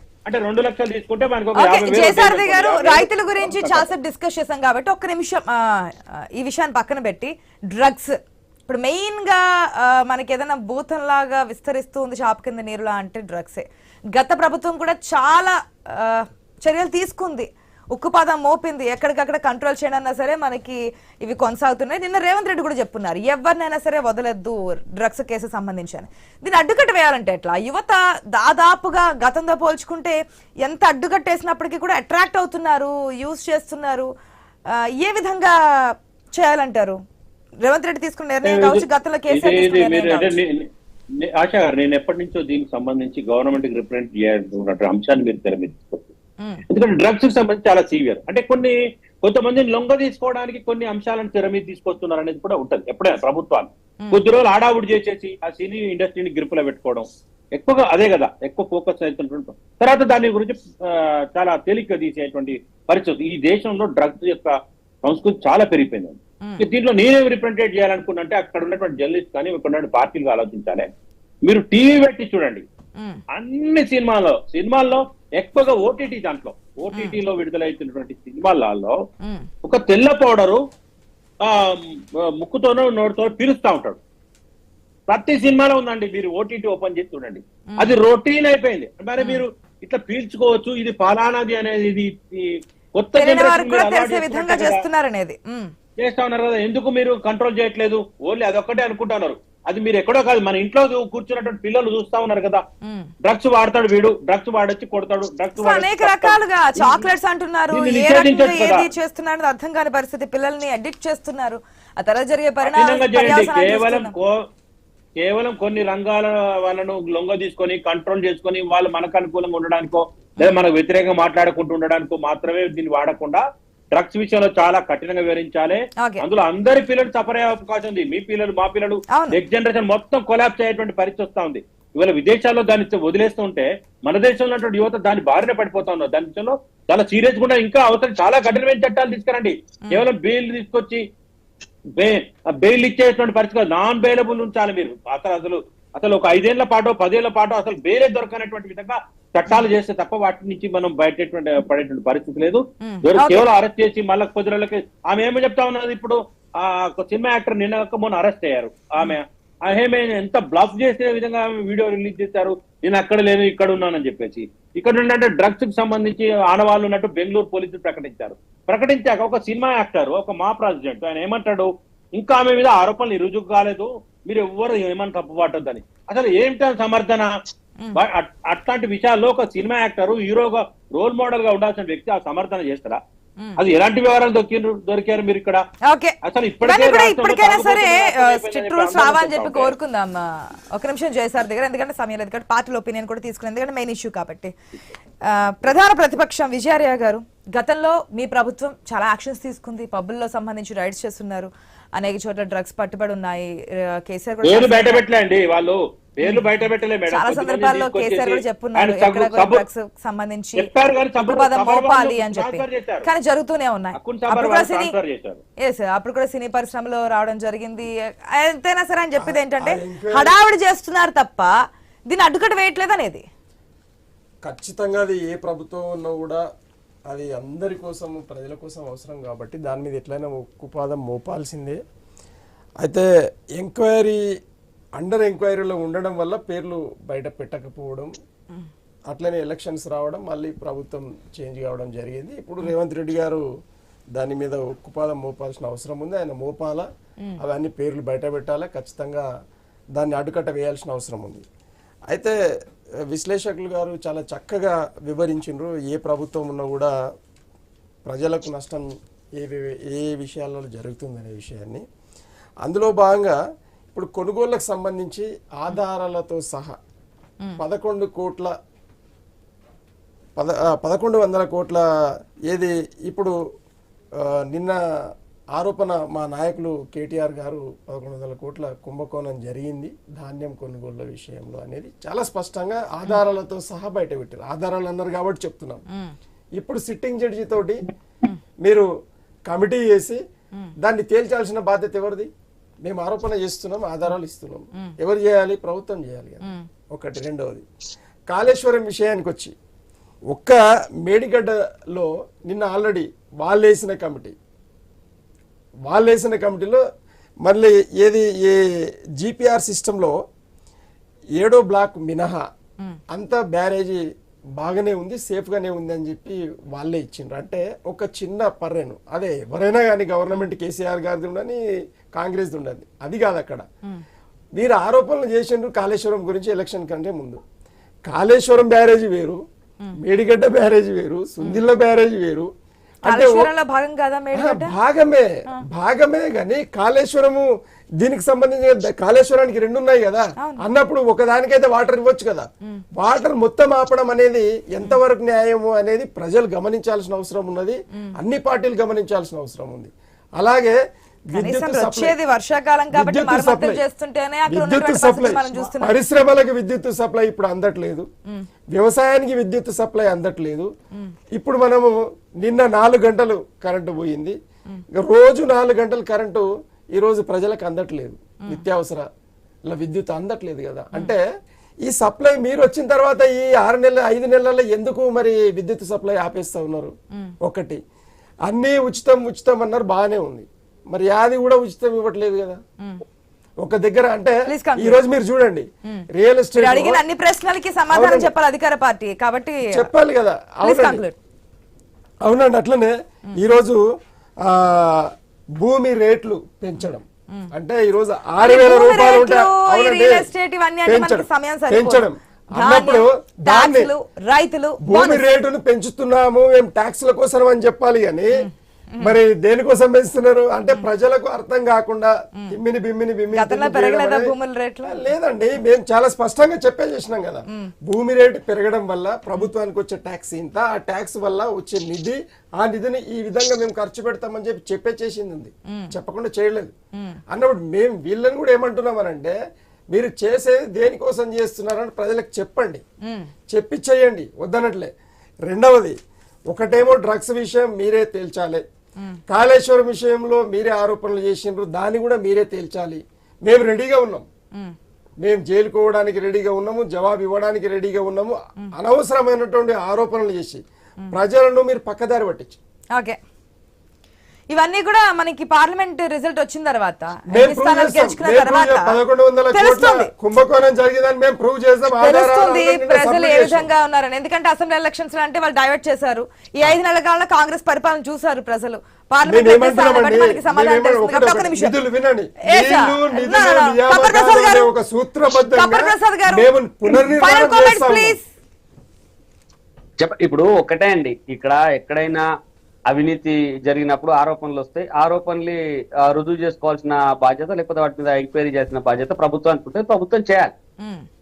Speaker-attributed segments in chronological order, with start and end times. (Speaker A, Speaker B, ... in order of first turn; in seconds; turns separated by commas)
Speaker A: 0.3-3.9, Speaker B: 1.6-8.2, Speaker B: 8.7-34.1, Speaker B: 34.7-37.0, Speaker B: 37.6-40.3, Speaker A: 38.4-40.7, Speaker A: 41.2-46.1, Speaker A: 46.7-70.9, Speaker B: 66.4-66.7, Speaker A: 71.4-72.7, Speaker A: 73.3-79.0, Speaker A: 79.6-80.6, Speaker A: 81.4-84.0, Speaker A: 85.1-94.8, Speaker B: 89.2-89.4, Speaker B: 93.1-95.7, Speaker A: 96.0-102.6, Speaker B: 102.8-103.1, Speaker A: 103.2-107.1, Speaker B: 105.6-114.1, Speaker A: 107.7-108.9, Speaker A: 112.6-114.4, Speaker A: 115.2-141.0, Speaker B: 129.2-129.4, Speaker A: 142.0-177.3, Speaker B: 152.8-153.5, Speaker A: 178.0-183.0, Speaker A: 183.6-185.6, Speaker B: 185.9-194.5, Speaker A: 186.2-189.7, Speaker B: 195.2-205.0, Speaker A: 204.4-209.7, Speaker B: 206.2-206.5, Speaker B: 207.1-214.9, Speaker A: 210.6-213.1, Speaker A: 214.0-215.4, Speaker B: 215.6-221.5, Speaker C: 219.2-220.3, Speaker B: 222.1-223.2, Speaker C: 224.4-226.4, Speaker C: 227.1-231.8, Speaker C: 232.8-234.2, Speaker C: 235.0-238.1, Speaker C: 239.1-243.4, Speaker C: 244.1-249.3, Speaker C: 250.0-251.4, Speaker C: 252.1-252.4, Speaker C: 253.1-256.9, Speaker C: 258.1-261.8, Speaker C: 262.6-263.4, Speaker C: 263.9-266.8, Speaker C: 267.6-268.5, Speaker C: 270.4-271.8, Speaker C: 272.5-273.3, Speaker C: 274.2-274.8, Speaker C: 275.6-285.8, Speaker C: 286.6-287.8, Speaker C: 288.6-288.9, Speaker C: 289.5-290.2, Speaker C: 290.8-292.3, Speaker C: 292.9-297.6, Speaker C: 298.3-299.5, Speaker C: 300.3-304.4, Speaker C: 305.9-306.8, Speaker C: 307.4-308.6, Speaker C: 309.2-310.1, Speaker C: 311.4-312.4, Speaker C: 313.1-314.0, Speaker C: 314.6-321.6, Speaker C: 322.1-323.6, Speaker C: 324.6-327.4, Speaker C: 328.1-329.4, Speaker C: 330.0-332.5, Speaker C: 333.1-333.5, Speaker B: 333.1-334.8, Speaker C: 334.3-337.5, Speaker C: 338.0-342.4, Speaker C: 343.0-350.8, Speaker C: 351.3-352.2, Speaker B: 351.3-356.0, Speaker C: 352.9-353.8, Speaker C: 354.5-358.1, Speaker C: 358.7-360.7, Speaker C: 361.4-364.4, Speaker C: 364.9-369.1, Speaker C: 369.7-371.2, Speaker C: 371.9-376.9, Speaker C: 377.5-377.8, Speaker C: 378.5-382.6, Speaker C: 383.6-387.0, Speaker B: 384.5-385.0, Speaker B: 386.6-389.9, Speaker C: 387.9-388.3, Speaker C: 389.7-391.0, Speaker B: 390.6-391.2, Speaker C: 392.2-393.8, Speaker C: 394.4-395.1, Speaker C: 395.6-400.3, Speaker B: 398.4-402.1, Speaker C: 400.9-403.9, Speaker B: 402.6-405.3, Speaker C: 404.9-408.4, Speaker B: 408.4-409.2, Speaker C: 409.0-414.3, Speaker B: 413.3-415.1, Speaker C: 414.8-426.7, Speaker C: 427.3-429.4, Speaker C: 429.9-432.8, Speaker C: 433.5-434.9, Speaker C: 435.5-436.0, Speaker C: 436.5-438.6, Speaker C: 439.3-444.3, Speaker C: 445.2-450.6, Speaker C: 451.1-452.6, Speaker B: 454.5-459.0, Speaker C: 457.3-463.7, Speaker B: 459.5-460.1, Speaker B: 462.0-471.7, Speaker C: 469.3-478.2, Speaker B: 472.5-474.7, Speaker B: 475.5-478.2, Speaker D: 480.0-482.2, Speaker D: 482.9-490.5